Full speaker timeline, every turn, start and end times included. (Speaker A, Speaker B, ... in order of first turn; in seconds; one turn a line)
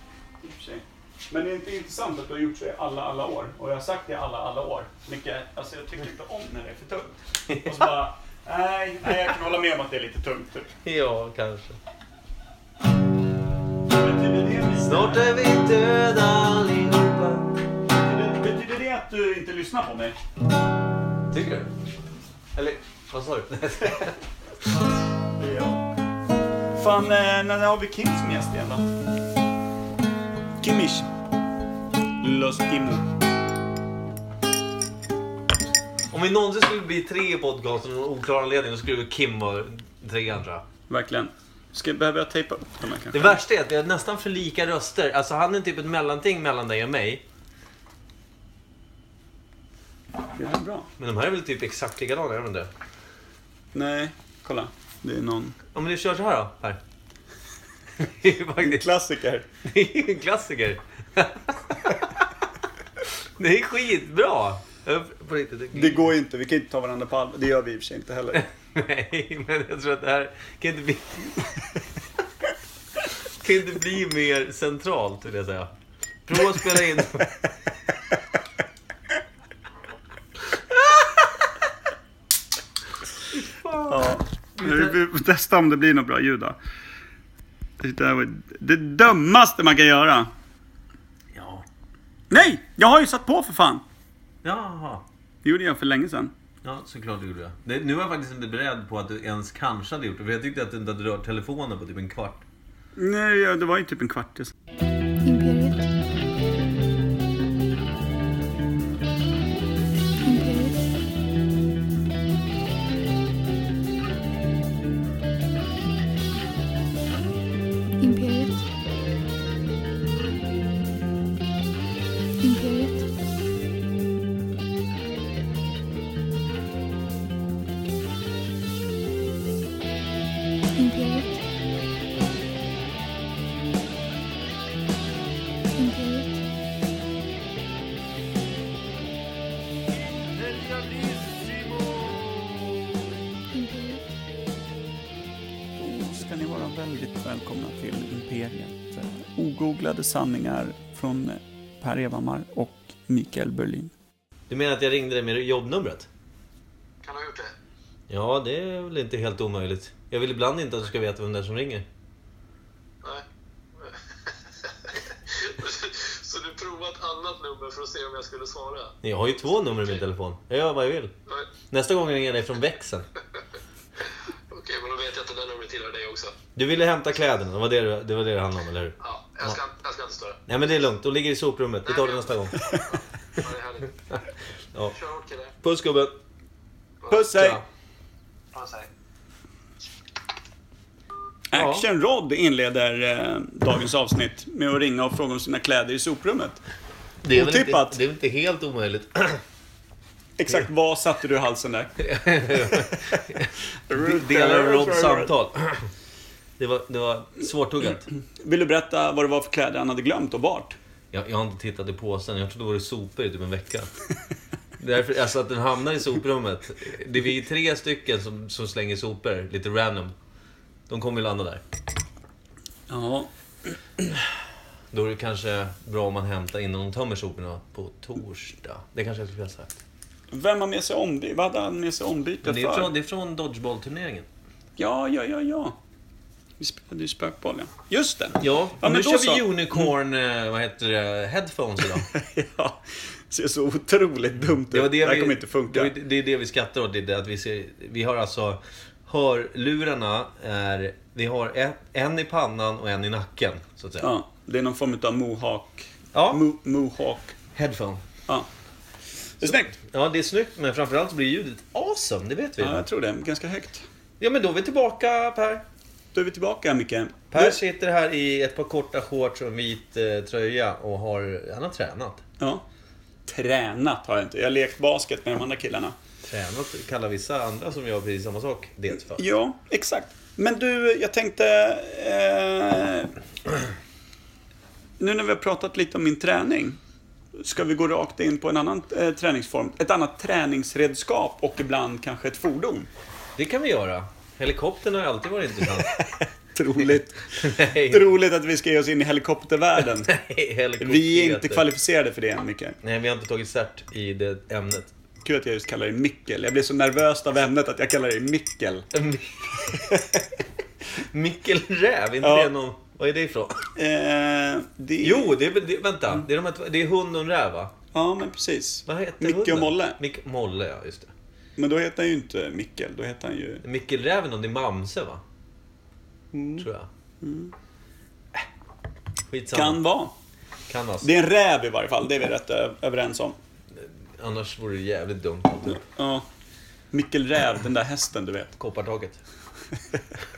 Speaker A: 0.4-10.7
Speaker B: 10.8-11.8
Speaker A: 13.9-15.3
Speaker B: 14.8-17.6
Speaker A: 17.9-20.1
Speaker B: 21.3-21.7
Speaker B: 22.5-24.2
Speaker A: 25.4-25.8
Speaker A: 26.7-28.9
Speaker A: 30.6-31.1
Speaker A: 32.2-33.1
Speaker B: 36.1-40.6
Speaker A: 40.9-43.4
Speaker B: 43.1-47.2
Speaker A: 50.3-50.9
Speaker B: 51.0-52.7
Speaker A: 53.7-55.5
Speaker B: 55.7-56.8
Speaker B: 58.0-58.8
Speaker A: 58.6-59.5
Speaker B: 59.6-62.2
Speaker B: 63.4-66.0
Speaker A: 65.7-68.4
Speaker B: 68.3-71.4
Speaker B: 73.2-75.7
Speaker B: 76.2-77.3
Speaker B: 80.7-81.2
Speaker B: 83.4-84.1
Speaker A: 83.9-86.6
Speaker B: 84.6-84.9
Speaker A: 87.8-90.3
Speaker B: 91.3-91.6
Speaker A: 92.3-93.8
Speaker B: 94.4-95.0
Speaker A: 95.4-96.3
Speaker B: 96.6-102.4
Speaker A: 103.0-104.5
Speaker C: 105.2-105.8
Speaker C: 110.2-110.8
Speaker C: 118.0-118.6
Speaker C: 122.4-123.0
Speaker C: 130.8-131.4
Speaker C: 135.8-136.4
Speaker A: 140.4-142.6
Speaker C: 143.5-144.0
Speaker A: 145.8-153.9
Speaker B: 154.5-156.1
Speaker D: 157.0-157.5
Speaker B: 158.1-161.8
Speaker D: 163.8-168.9
Speaker B: 169.0-171.1
Speaker B: 171.7-173.1
Speaker D: 174.5-176.3
Speaker B: 176.6-179.6
Speaker D: 179.0-180.4
Speaker B: 180.5-182.6
Speaker D: 181.8-184.0
Speaker B: 184.1-184.9
Speaker D: 184.9-185.5
Speaker B: 185.6-186.1
Speaker A: 187.1-187.6
Speaker B: 187.3-187.6
Speaker D: 188.5-188.9
Speaker A: 191.5-196.6
Speaker B: 191.5-191.8
Speaker B: 197.2-199.4
Speaker A: 197.3-198.0
Speaker A: 200.4-201.9
Speaker B: 202.0-205.9
Speaker A: 203.9-205.3
Speaker B: 206.6-208.1
Speaker A: 208.4-210.8
Speaker B: 211.1-213.9
Speaker B: 214.8-220.1
Speaker B: 220.9-221.6
Speaker A: 222.9-223.3
Speaker B: 224.9-229.7
Speaker A: 230.3-232.9
Speaker B: 232.4-234.3
Speaker A: 234.8-235.7
Speaker A: 236.6-239.9
Speaker B: 238.4-242.1
Speaker A: 242.1-245.9
Speaker B: 244.6-254.1
Speaker A: 254.0-257.3
Speaker B: 256.1-256.4
Speaker B: 257.5-258.0
Speaker A: 259.4-259.7
Speaker B: 259.4-262.9
Speaker A: 262.6-263.9
Speaker B: 264.2-265.6
Speaker A: 266.1-267.6
Speaker B: 267.3-272.2
Speaker A: 273.2-275.9
Speaker B: 276.2-279.2
Speaker A: 279.1-283.1
Speaker A: 285.0-286.8
Speaker A: 287.4-292.9
Speaker B: 293.4-296.0
Speaker A: 296.5-300.1
Speaker B: 297.3-298.1
Speaker B: 300.1-301.7
Speaker A: 300.8-302.8
Speaker B: 302.8-304.9
Speaker A: 305.2-308.9
Speaker B: 308.9-309.9
Speaker B: 311.0-313.7
Speaker A: 312.2-312.5
Speaker A: 313.8-315.3
Speaker B: 315.0-317.7
Speaker A: 317.9-320.0
Speaker B: 318.9-321.1
Speaker A: 321.6-323.6
Speaker B: 323.6-325.2
Speaker A: 326.3-326.6
Speaker B: 326.6-326.9
Speaker A: 327.2-327.5
Speaker B: 329.3-329.8
Speaker A: 329.5-330.1
Speaker B: 330.7-331.1
Speaker A: 331.0-333.4
Speaker B: 333.7-335.9
Speaker A: 335.9-336.3
Speaker A: 336.9-338.5
Speaker B: 338.6-339.2